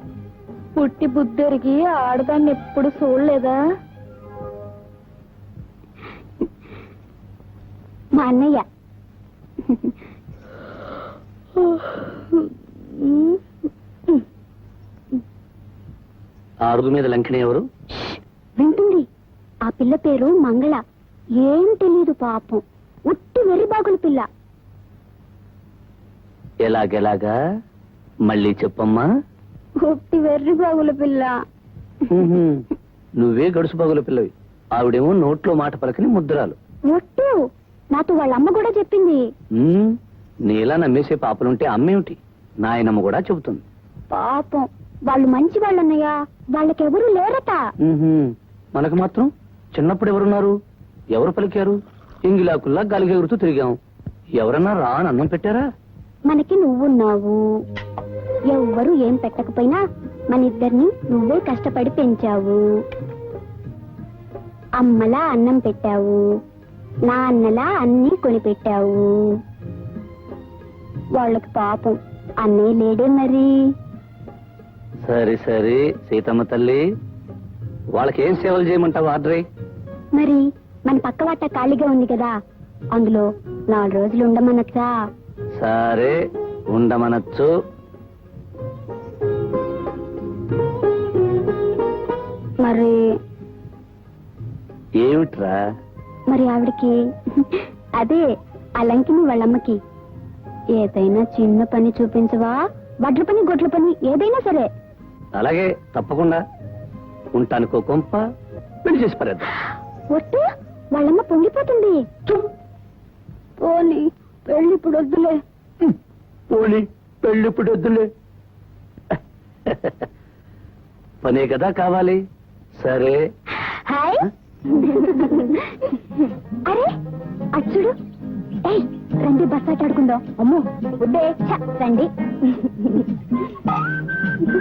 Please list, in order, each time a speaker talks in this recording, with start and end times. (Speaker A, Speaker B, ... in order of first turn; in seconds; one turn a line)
Speaker A: 0.8-3.3
Speaker B: 8.2-8.6
Speaker C: 16.6-17.6
Speaker B: 18.1-19.1
Speaker B: 19.7-20.8
Speaker B: 21.4-24.3
Speaker C: 26.6-27.4
Speaker C: 28.3-29.1
Speaker B: 29.9-31.3
Speaker C: 32.1-32.6
Speaker C: 33.2-36.6
Speaker B: 36.9-37.4
Speaker B: 37.9-39.2
Speaker C: 39.6-40.0
Speaker C: 40.5-43.6
Speaker B: 44.1-47.6
Speaker C: 47.8-50.5
Speaker C: 51.1-53.8
Speaker C: 54.4-55.7
Speaker B: 56.3-57.4
Speaker B: 58.5-62.6
Speaker B: 64.8-66.2
Speaker B: 67.1-69.3
Speaker B: 71.2-73.5
Speaker C: 75.0-76.8
Speaker C: 77.9-79.4
Speaker B: 80.2-82.3
Speaker B: 83.0-84.9
Speaker C: 85.6-86.2
Speaker C: 86.7-87.5
Speaker B: 92.6-93.0
Speaker C: 95.0-95.6
Speaker B: 96.3-98.2
Speaker B: 98.8-99.8
Speaker B: 100.8-104.7
Speaker C: 105.3-106.4
Speaker C: 107.3-108.2
Speaker C: 108.8-109.5
Speaker B: 110.1-112.5
Speaker B: 113.6-115.3
Speaker C: 116.5-118.1
Speaker C: 119.7-120.1
Speaker C: 121.2-122.2
Speaker C: 122.8-123.2
Speaker B: 123.6-126.0
Speaker B: 127.5-127.9
Speaker B: 128.6-133.1